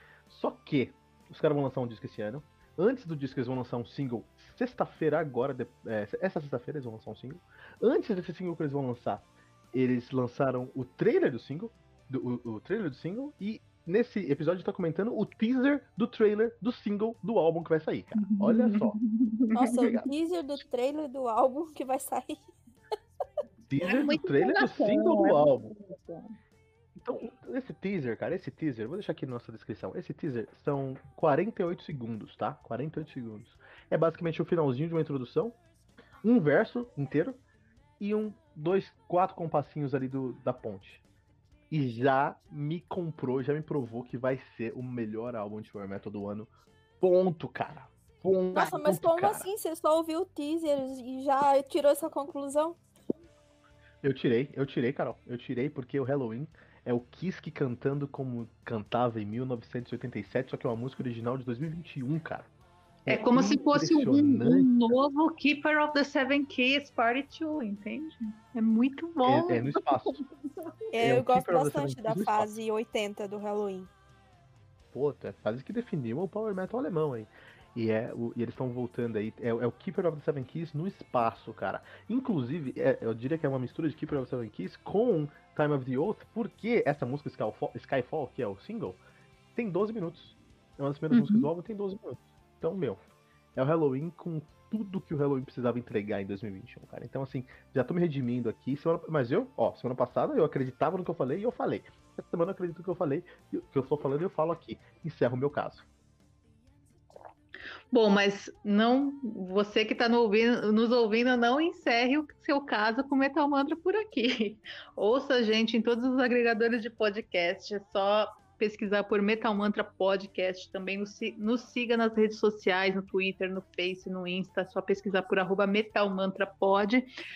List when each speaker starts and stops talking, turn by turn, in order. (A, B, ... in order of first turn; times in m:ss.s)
0:00.3-0:19.0 A
0:18.1-0:20.0 B
0:19.5-0:22.5 C
0:23.7-0:25.7 A
0:23.8-0:26.3 B
0:27.0-0:35.6 A
0:36.2-0:37.4 A
0:38.0-0:41.0 A
0:41.7-0:49.5 A
0:48.5-0:52.8 C
0:54.0-1:02.5 A
1:03.0-1:04.7 A
1:03.1-1:10.2 B
1:09.2-1:10.1 A
1:10.9-1:13.9 C
1:11.0-1:12.5 A
1:14.9-1:29.0 A
1:29.6-1:33.0 A
1:31.1-1:31.5 B
1:33.5-1:45.8 A
1:47.9-2:07.1 B